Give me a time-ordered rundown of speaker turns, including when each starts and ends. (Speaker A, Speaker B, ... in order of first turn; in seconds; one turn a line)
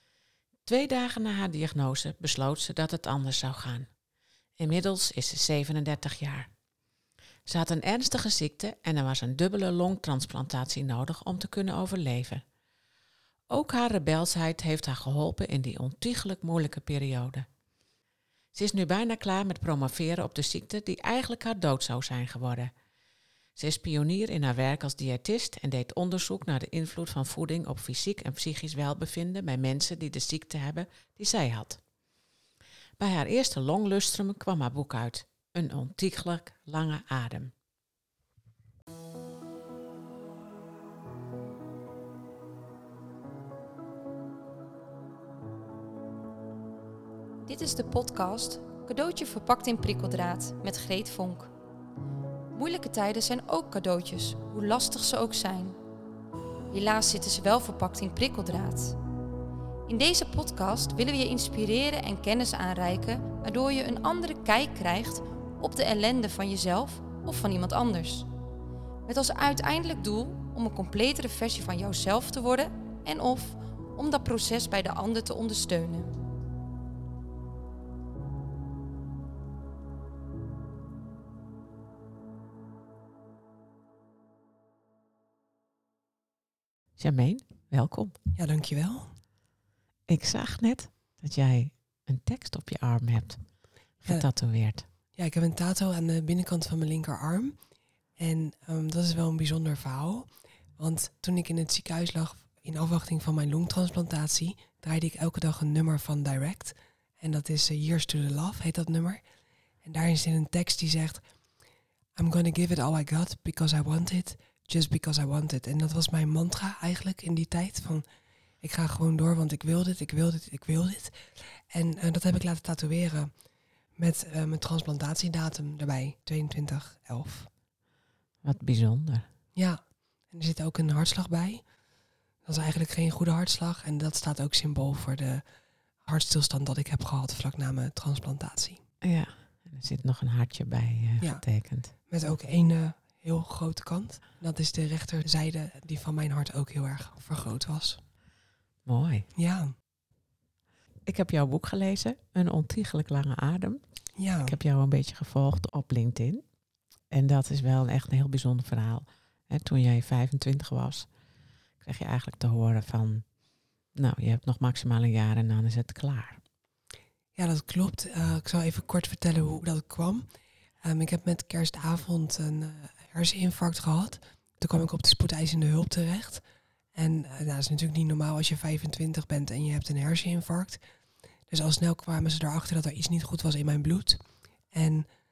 Speaker A: 0.7-3.9
Speaker A: 4.6-6.5
Speaker A: 7.5-12.4
Speaker A: 13.5-17.5
Speaker A: 18.5-22.7
Speaker A: 23.6-31.8
Speaker A: 33.0-37.5
Speaker B: 47.5-51.5
Speaker B: 52.5-55.8
Speaker B: 56.7-59.0
Speaker B: 59.9-68.3
Speaker B: 69.1-76.2
Speaker A: 87.0-88.2
Speaker C: 88.4-89.1
Speaker A: 90.1-93.4
Speaker A: 94.0-94.9
Speaker C: 95.2-97.6
Speaker C: 98.2-109.2
Speaker C: 109.8-111.2
Speaker C: 112.2-118.0
Speaker C: 118.6-123.3
Speaker C: 124.0-127.5
Speaker A: 128.4-129.3
Speaker C: 129.6-131.6
Speaker C: 132.4-135.4
Speaker C: 136.1-138.8
Speaker A: 139.0-141.9
Speaker C: 142.1-148.0
Speaker A: 148.9-149.3
Speaker C: 149.4-149.8
Speaker A: 151.1-153.8
Speaker C: 154.2-154.6
Speaker A: 154.4-156.4
Speaker A: 157.1-161.1
Speaker A: 161.8-163.3
Speaker A: 163.9-166.4
Speaker C: 167.4-170.3
Speaker C: 170.8-176.4
Speaker C: 176.9-180.8
Speaker C: 181.5-185.1